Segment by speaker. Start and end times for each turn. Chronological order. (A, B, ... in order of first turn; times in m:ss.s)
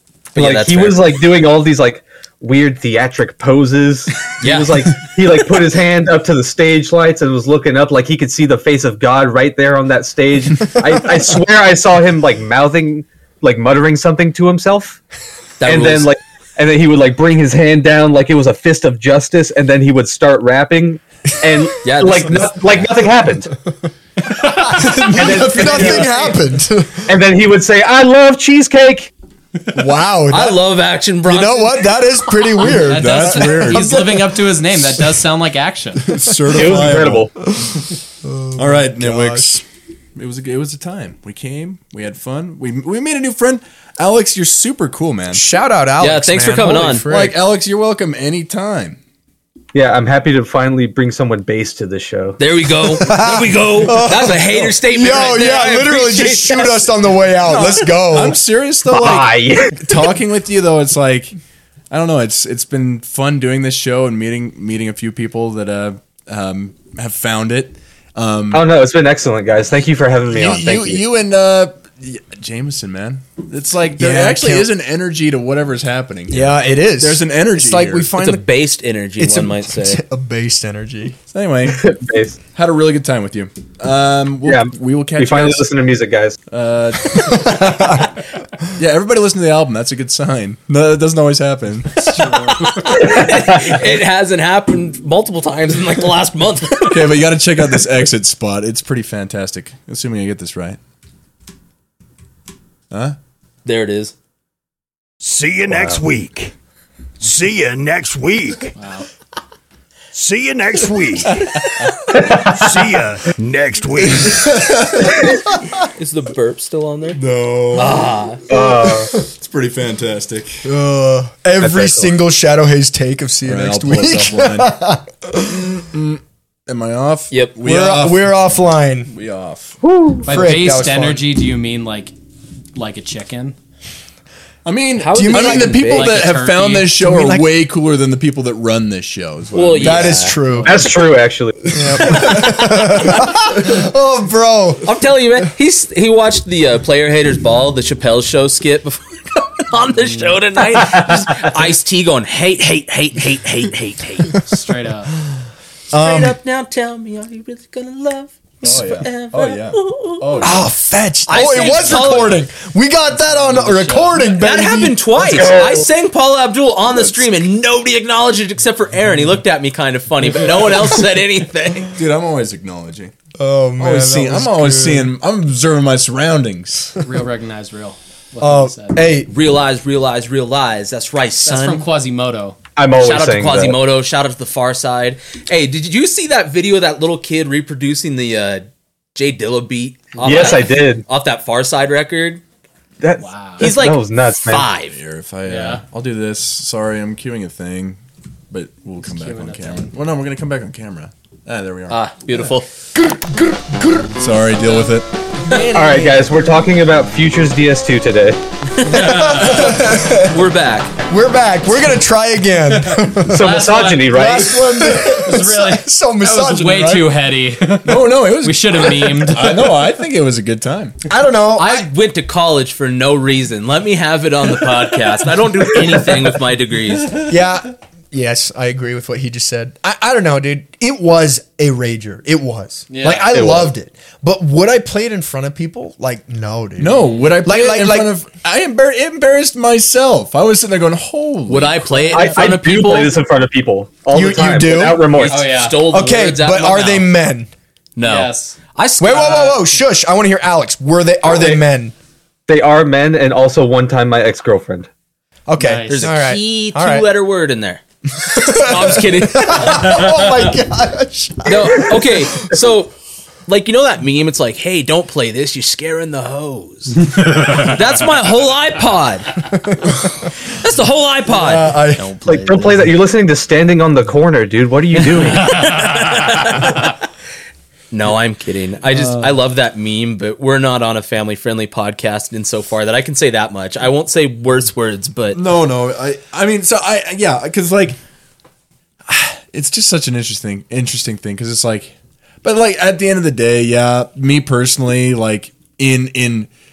0:00.3-0:01.2 A
0:00.4-0:15.0 B
0:04.4-0:05.0 A
0:15.6-0:16.1 A
0:15.6-0:23.5 B
0:21.8-0:22.6 A
0:24.3-0:26.3 C
0:24.6-0:27.0 D
0:24.6-0:26.2 B
0:27.1-0:29.1 B
0:29.7-0:30.6 D
0:30.3-0:32.0 A
0:31.2-0:34.4 D
0:32.6-0:36.2 C
0:32.6-0:34.0 E
0:36.1-0:37.3 E
0:36.1-0:37.0 D
0:36.5-0:37.3 B
0:37.5-0:39.5 D
0:38.6-0:45.4 E
0:45.3-0:47.4 D
0:46.0-0:47.0 A
0:47.0-0:49.0 E
0:49.7-0:52.4 B
0:52.4-0:57.9 A
0:53.0-0:58.4 D
0:58.1-1:01.3 E
0:58.9-1:00.1 B
1:01.9-1:08.6 E
1:08.5-1:11.0 B
1:10.3-1:11.0 D
1:10.4-1:18.1 E
1:14.0-1:14.7 D
1:16.3-1:18.4 D
1:18.2-1:20.0 A
1:19.2-1:21.2 D
1:21.3-1:21.8 E
1:21.6-1:22.4 B
1:22.5-1:25.7 E
1:24.4-1:26.4 B
1:26.5-1:28.0 E
1:27.1-1:28.2 D
1:28.8-1:32.4 E
1:32.2-1:32.6 C
1:32.7-1:37.1 A
1:32.9-1:33.8 B
1:36.8-1:40.8 E
1:42.9-1:43.2 E
1:43.6-1:44.1 A
1:45.2-1:46.5 F
1:47.2-1:48.7 F
1:48.8-1:49.1 C
1:50.1-1:51.5 F
1:52.1-1:52.7 B
1:52.1-1:54.6 F
1:54.3-1:55.3 E
1:55.9-1:57.2 A
1:57.2-1:58.1 E
1:57.7-1:58.4 A
1:58.5-1:59.1 B
1:58.5-1:59.0 D
1:59.1-2:00.7 E
2:00.6-2:05.6 D
2:01.6-2:02.1 B
2:03.4-2:04.8 E
2:05.4-2:09.8 E
2:07.6-2:09.1 D
2:09.8-2:10.4 B
2:10.2-2:11.2 D
2:10.2-2:12.1 C
2:12.8-2:13.5 C
2:14.6-2:20.0 E
2:15.0-2:16.2 A
2:15.1-2:16.2 D
2:16.0-2:17.0 C
2:16.9-2:17.5 D
2:19.5-2:20.3 A
2:19.7-2:21.0 C
2:19.8-2:20.9 D
2:20.7-2:22.2 B
2:21.7-2:24.9 D
2:22.2-2:23.0 A
2:24.8-2:34.4 A
2:30.0-2:30.4 C
2:30.9-2:31.2 B
2:34.4-2:35.1 C
2:35.9-2:36.4 D
2:35.9-2:40.5 A
2:38.6-2:40.7 E
2:40.4-2:45.8 D
2:41.3-2:42.4 A
2:41.3-2:42.2 C
2:43.2-2:44.4 C
2:44.3-2:52.0 A
2:45.3-2:45.8 B
2:47.0-2:47.2 E
2:51.9-2:53.1 E
2:53.4-2:55.1 D
2:53.8-2:57.0 E
2:57.0-2:59.1 C
2:58.4-2:59.3 D
2:59.3-3:01.9 A
3:01.4-3:02.6 C
3:02.8-3:03.8 B
3:03.0-3:12.4 A
3:10.1-3:10.7 C
3:10.2-3:11.0 B
3:13.0-3:14.7 B
3:13.2-3:13.7 C
3:13.6-3:15.0 A
3:14.8-3:18.0 E
3:15.4-3:15.8 C
3:18.5-3:22.0 E
3:19.0-3:19.9 C
3:21.9-3:22.7 A
3:23.0-3:24.2 D
3:24.2-3:25.1 E
3:25.5-3:26.3 D
3:25.6-3:28.4 B
3:28.8-3:30.9 A
3:28.8-3:30.4 D
3:31.1-3:37.2 D
3:33.2-3:34.9 B
3:33.2-3:39.7 C
3:37.8-3:40.9 E
3:41.1-3:41.9 D
3:41.6-3:47.2 A
3:45.8-3:46.1 C
3:47.2-3:58.1 D
3:52.9-3:53.4 C
3:53.3-3:53.7 B
3:56.8-4:01.8 E
4:01.5-4:03.1 A
4:01.9-4:02.3 C
4:02.1-4:05.4 B
4:04.1-4:05.2 D
4:05.1-4:07.1 A
4:05.2-4:05.8 C
4:05.8-4:07.5 D
4:08.0-4:09.7 A
4:08.0-4:08.6 C
4:09.0-4:11.9 D
4:11.3-4:11.6 B
4:12.5-4:14.9 B
4:15.5-4:17.0 D
4:15.6-4:16.1 C
4:15.9-4:20.2 A
4:18.2-4:22.5 D
4:21.4-4:22.9 A
4:23.5-4:29.5 A
4:27.2-4:27.7 C
4:29.5-4:30.3 D
4:30.5-4:32.9 A
4:31.3-4:32.1 D
4:32.3-4:35.7 B
4:34.9-4:37.0 A
4:35.6-4:36.4 C
4:37.9-4:45.4 A
4:45.3-4:48.0 E
4:49.1-4:56.5 E